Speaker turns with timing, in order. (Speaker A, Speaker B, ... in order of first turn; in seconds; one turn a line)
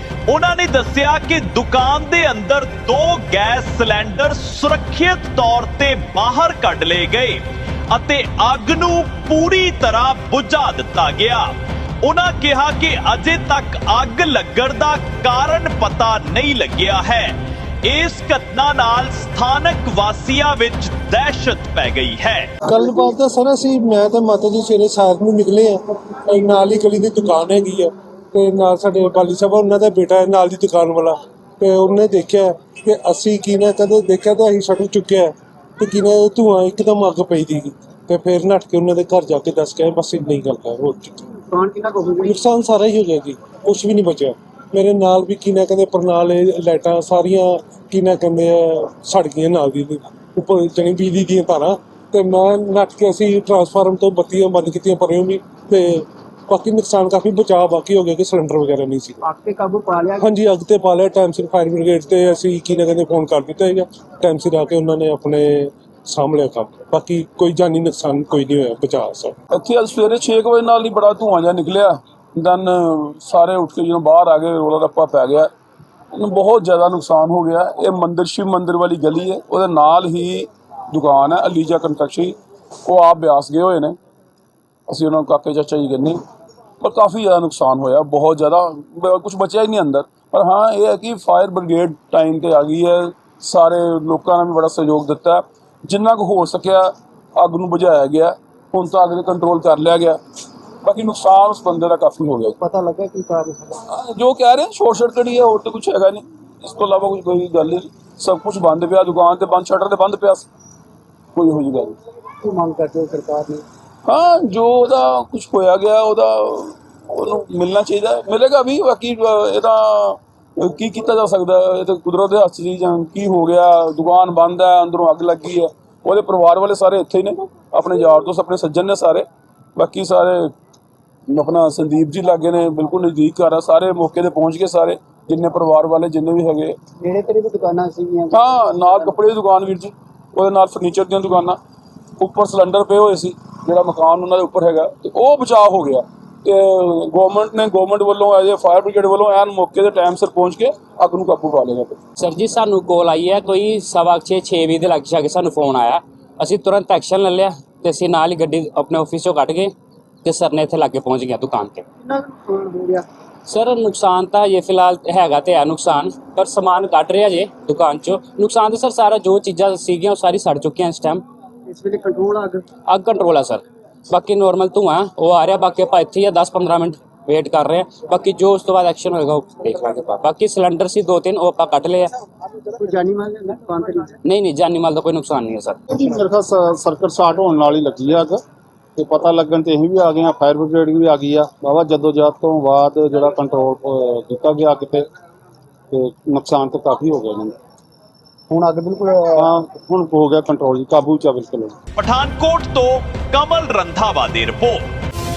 Speaker A: 0.3-22.5
Speaker B: 22.6-41.3
Speaker C: 41.5-42.4
Speaker B: 42.2-59.2
Speaker C: 59.2-60.2
Speaker B: 60.2-69.3
Speaker D: 69.5-75.5
Speaker D: 76.1-84.0
Speaker D: 84.9-86.2
Speaker D: 86.8-100.2
Speaker D: 100.8-102.5
Speaker C: 102.6-103.8
Speaker D: 103.9-110.5
Speaker D: 111.3-112.0
Speaker C: 112.4-113.6
Speaker D: 114.0-130.5
Speaker D: 131.3-136.8
Speaker C: 137.0-139.1
Speaker D: 138.3-141.6
Speaker D: 142.2-152.0
Speaker E: 152.2-159.7
Speaker E: 160.2-161.8
Speaker C: 162.0-163.1
Speaker E: 163.5-171.2
Speaker C: 171.7-172.6
Speaker E: 172.8-182.1
Speaker C: 182.6-184.2
Speaker E: 184.2-185.8
Speaker F: 185.9-188.4
Speaker F: 188.9-195.0
Speaker F: 195.9-197.5
Speaker C: 198.5-199.4
Speaker F: 199.4-201.8
Speaker D: 202.0-204.9
Speaker A: 202.0-202.4
Speaker A: 203.2-203.9